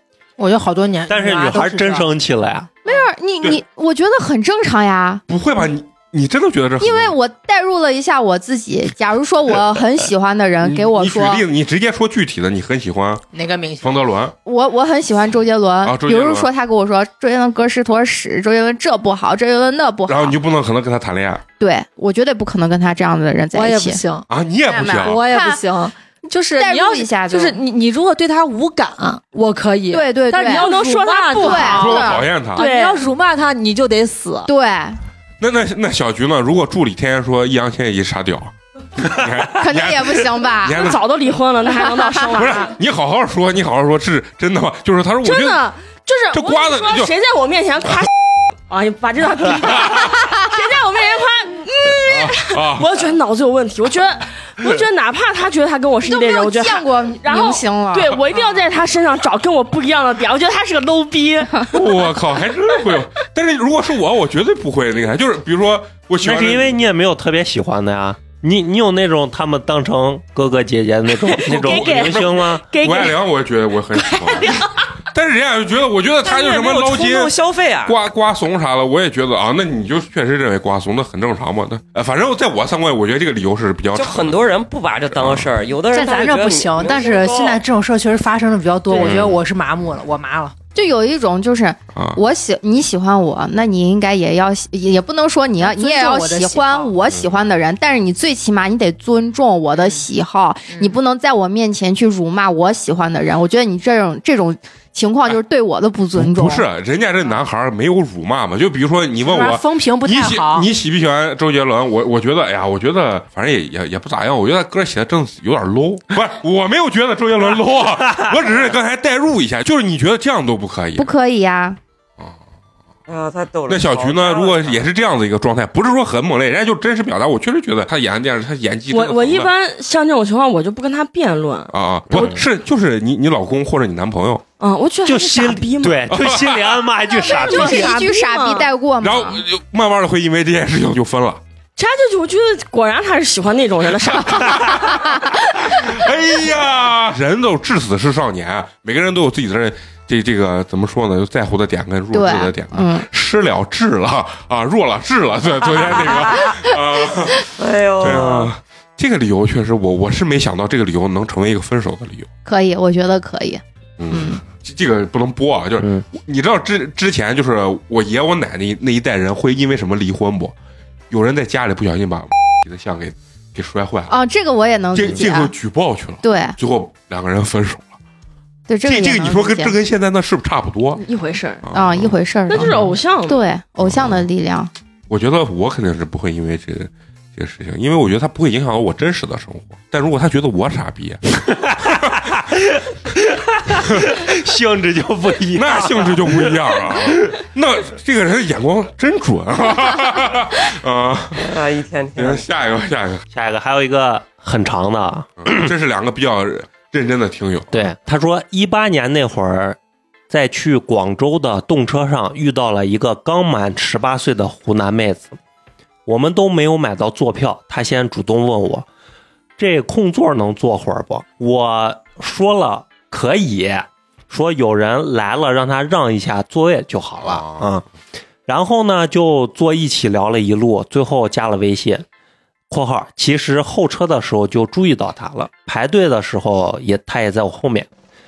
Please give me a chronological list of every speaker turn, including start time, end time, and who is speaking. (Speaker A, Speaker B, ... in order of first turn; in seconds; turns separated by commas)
Speaker A: 0.4-2.1, Speaker B: 1.1-2.8, Speaker C: 2.8-5.2, Speaker D: 5.3-7.1, Speaker C: 6.8-11.4, Speaker D: 10.6-13.2, Speaker A: 13.3-14.0, Speaker D: 13.8-14.3, Speaker C: 14.4-20.4, Speaker D: 15.8-16.5, Speaker D: 20.1-21.4, Speaker C: 21.6-24.0, Speaker E: 23.5-24.2, Speaker D: 24.3-25.2, Speaker C: 24.7-25.6, Speaker E: 25.0-34.5, Speaker C: 26.5-27.6, Speaker C: 29.9-30.7, Speaker F: 30.5-31.9, Speaker C: 31.3-32.3, Speaker D: 31.7-32.6, Speaker F: 32.5-33.0, Speaker C: 34.5-35.0, Speaker D: 35.4-41.0, Speaker C: 39.5-41.0, Speaker F: 40.8-42.7, Speaker C: 41.7-42.3, Speaker D: 42.3-45.6, Speaker F: 45.2-48.1, Speaker D: 46.3-47.1, Speaker F: 48.7-62.0, Speaker D: 52.0-53.0, Speaker C: 56.0-58.6, Speaker D: 61.7-66.8, Speaker B: 66.2-72.7, Speaker F: 71.2-73.2, Speaker D: 71.5-84.5, Speaker F: 74.0-74.7, Speaker G: 76.2-78.0, Speaker G: 83.9-87.6, Speaker D: 85.1-85.5, Speaker A: 85.9-90.5, Speaker F: 88.9-89.3, Speaker D: 89.0-89.4, Speaker C: 90.7-106.6, Speaker D: 91.9-92.2, Speaker A: 95.6-96.9, Speaker D: 106.2-121.1, Speaker A: 109.2-110.7, Speaker C: 121.0-121.8, Speaker G: 123.1-124.9, Speaker D: 123.7-129.5, Speaker F: 128.9-131.7, Speaker D: 131.7-134.4, Speaker B: 132.1-132.4, Speaker F: 134.6-136.1, Speaker B: 135.0-138.0, Speaker D: 136.1-136.8, Speaker C: 137.2-139.4, Speaker F: 137.2-138.7, Speaker D: 139.0-141.4, Speaker F: 141.8-145.0, Speaker D: 145.7-157.5, Speaker C: 152.1-153.0, Speaker G: 157.6-158.5, Speaker D: 158.0-162.3, Speaker B: 158.0-158.5, Speaker C: 162.4-164.4, Speaker D: 164.0-170.5, Speaker B: 165.8-166.0, Speaker D: 171.1-174.2, Speaker C: 174.1-175.5, Speaker D: 174.9-177.9, Speaker C: 176.2-176.6, Speaker C: 178.7-179.7, Speaker D: 178.8-181.0, Speaker F: 180.9-181.7, Speaker D: 181.6-182.7, Speaker C: 181.7-184.7, Speaker F: 182.5-183.4, Speaker D: 183.8-184.2, Speaker D: 185.1-191.2, Speaker B: 192.2-197.4, Speaker D: 195.5-201.5, Speaker G: 201.4-202.4, Speaker D: 202.2-203.2, Speaker B: 203.3-205.7, Speaker D: 205.4-207.8, Speaker B: 207.7-209.8, Speaker B: 210.3-215.4, Speaker B: 216.1-218.8, Speaker B: 219.6-227.8, Speaker D: 227.2-227.7, Speaker B: 228.5-232.0, Speaker B: 232.7-237.9